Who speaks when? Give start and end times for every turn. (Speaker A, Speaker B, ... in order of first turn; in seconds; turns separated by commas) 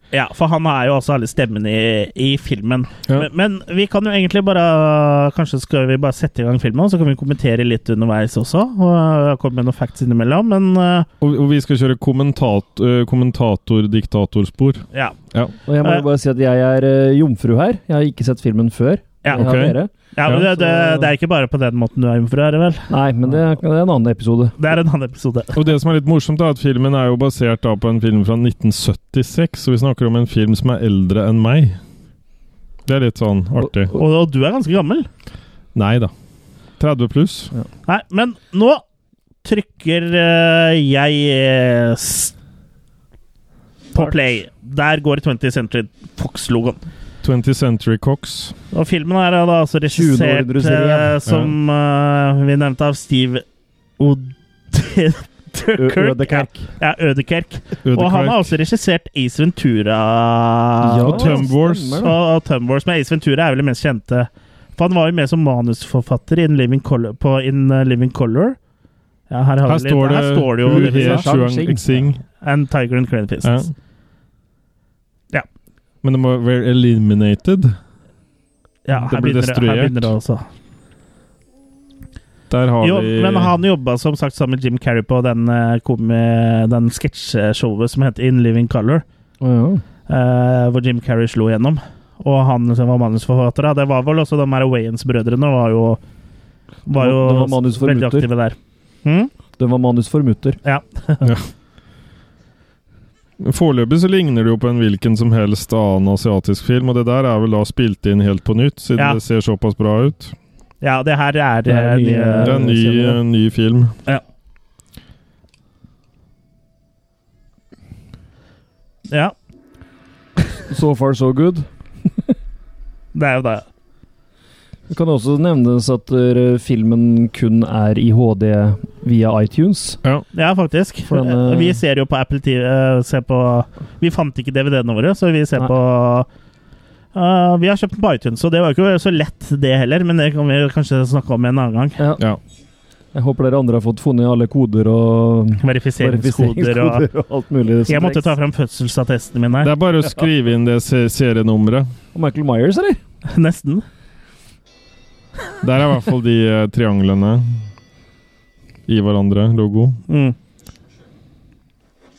Speaker A: 0.1-11.1, Speaker B: 11.2-15.5, Speaker C: 15.7-21.1, Speaker A: 19.2-19.5, Speaker B: 19.3-20.4, Speaker A: 20.1-22.9, Speaker C: 22.9-24.5, Speaker A: 24.6-25.5, Speaker B: 25.5-31.8, Speaker B: 32.9-33.9, Speaker A: 33.9-35.1, Speaker B: 35.7-36.1, Speaker B: 36.8-37.5, Speaker A: 37.9-38.8, Speaker A: 39.4-42.3, Speaker A: 43.9-46.8, Speaker B: 47.2-48.5, Speaker A: 48.7-53.4, Speaker C: 49.9-51.2, Speaker B: 51.3-51.5, Speaker A: 54.0-61.5, Speaker C: 55.8-56.7, Speaker B: 57.8-58.5, Speaker C: 60.8-62.2, Speaker B: 61.0-62.0, Speaker A: 62.0-68.6, Speaker A: 69.3-71.3, Speaker B: 69.7-72.2, Speaker C: 70.6-72.1, Speaker A: 72.4-73.6, Speaker B: 73.4-73.7, Speaker B: 76.0-77.7, Speaker A: 78.8-80.4, Speaker B: 78.9-80.1, Speaker B: 82.5-83.5, Speaker A: 82.8-89.0, Speaker C: 89.4-89.8, Speaker A: 90.1-96.0, Speaker A: 96.9-99.3, Speaker C: 97.0-98.3, Speaker C: 99.6-100.6, Speaker A: 100.6-101.2, Speaker B: 101.2-101.5, Speaker B: 103.4-110.3, Speaker A: 110.8-112.7, Speaker C: 111.7-113.2, Speaker B: 112.4-113.9, Speaker A: 119.1-119.3, Speaker C: 120.7-122.1, Speaker A: 123.1-123.7, Speaker C: 124.9-130.0, Speaker A: 130.3-136.3, Speaker C: 131.1-131.8, Speaker A: 137.1-142.0, Speaker C: 142.0-142.2, Speaker C: 143.1-148.3, Speaker A: 145.6-147.1, Speaker A: 147.9-149.7, Speaker B: 149.6-151.9, Speaker C: 152.1-153.0, Speaker A: 153.3-153.8, Speaker B: 155.6-157.7, Speaker B: 158.9-160.0, Speaker A: 160.1-160.3